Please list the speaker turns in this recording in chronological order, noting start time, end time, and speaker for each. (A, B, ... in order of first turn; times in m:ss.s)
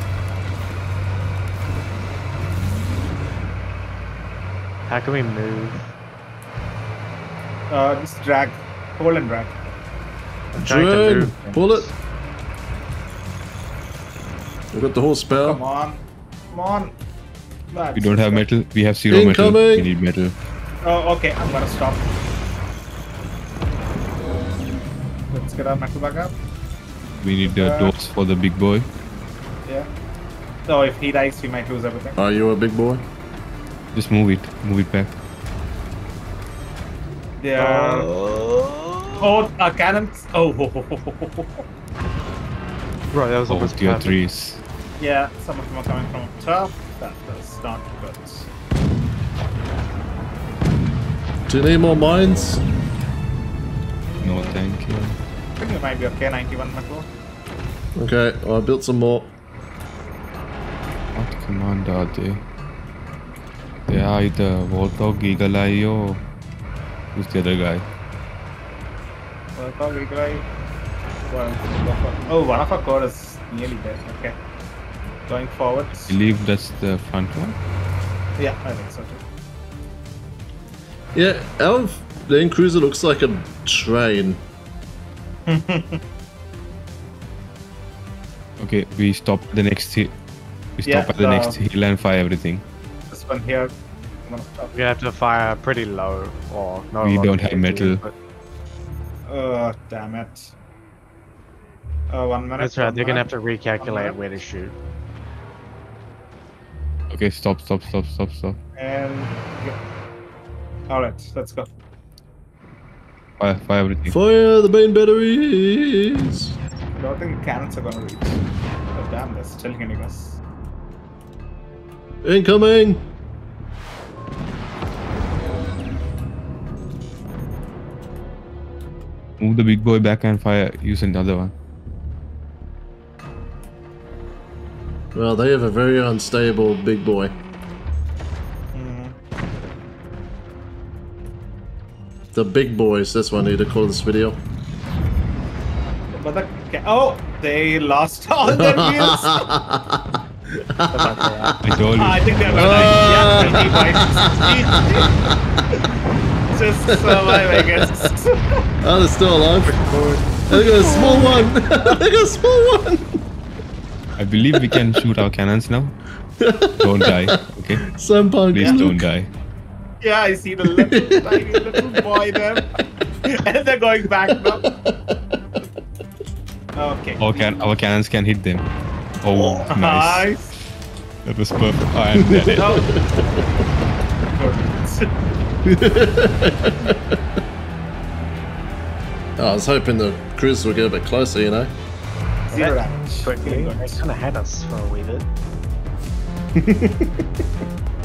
0:04.9-0:05.9 A
0:07.7-0:09.6 B
0:10.5-0:11.9 A
0:10.6-0:11.9 C
0:14.7-0:15.6 C
0:15.4-0:16.9 B
0:17.7-0:18.4 B
0:17.9-0:20.3 D
0:19.1-0:19.9 C
0:20.8-0:22.0 B
0:25.3-0:26.3 B
0:27.2-0:28.9 D
0:27.4-0:27.9 B
0:30.7-0:32.2 B
0:32.2-0:33.0 C
0:33.9-0:35.1 D
0:37.4-0:38.1 B
0:37.6-0:39.4 A
0:39.2-0:41.6 B
0:43.1-0:44.2 A
0:43.5-0:44.6 D
0:45.0-0:48.5 B
0:51.5-0:52.6 C
0:54.2-0:55.2 D
0:54.2-0:54.6 B
0:55.6-0:57.1 B
0:58.0-0:59.3 C
1:01.1-1:02.4 D
1:03.9-1:06.2 D
1:07.1-1:07.9 D
1:09.6-1:10.5 B
1:11.3-1:14.3 B
1:15.3-1:16.2 B
1:16.1-1:17.6 D
1:18.4-1:19.2 B
1:21.1-1:24.4 C
1:25.5-1:26.0 B
1:28.6-1:30.1 D
1:30.8-1:32.6 D
1:30.8-1:31.6 B
1:33.1-1:33.7 B
1:34.2-1:34.8 B
1:34.7-1:38.1 A
1:37.0-1:38.0 D
1:39.3-1:40.5 B
1:42.1-1:43.3 B
1:42.6-1:44.8 A
1:43.8-1:44.2 B
1:47.1-1:48.6 D
1:48.8-1:49.8 B
1:50.9-1:51.7 B
1:53.4-1:54.2 D
1:54.1-1:56.6 C
1:57.0-1:58.4 B
1:58.9-2:00.4 B
2:02.2-2:03.0 C
2:09.4-2:11.5 D
2:15.1-2:17.3 C
2:18.7-2:19.1 B
2:22.3-2:24.4 C
2:26.1-2:29.4 B
2:28.4-2:30.0 C
2:30.8-2:31.5 C
2:30.9-2:31.6 A
2:31.6-2:33.1 D
2:32.0-2:35.1 B
2:32.5-2:35.3 C
2:36.5-2:38.3 B
2:36.9-2:38.0 C
2:38.8-2:39.7 C
2:39.6-2:41.4 A
2:40.5-2:43.2 C
2:44.2-2:46.0 D
2:46.4-2:49.1 C
2:46.8-2:47.8 D
2:48.5-2:49.3 D
2:48.5-2:48.8 B
2:50.0-2:52.7 B
2:50.7-2:52.1 C
2:53.2-2:54.6 B
2:56.8-2:57.7 B
2:57.2-2:58.7 D
2:59.2-3:00.3 D
2:59.7-3:00.5 B
3:01.2-3:02.8 D
3:02.2-3:03.0 C
3:02.6-3:03.3 B
3:04.3-3:05.1 B
3:05.6-3:07.1 C
3:09.4-3:11.7 C
3:12.5-3:14.0 B
3:12.5-3:15.3 A
3:16.6-3:17.1 C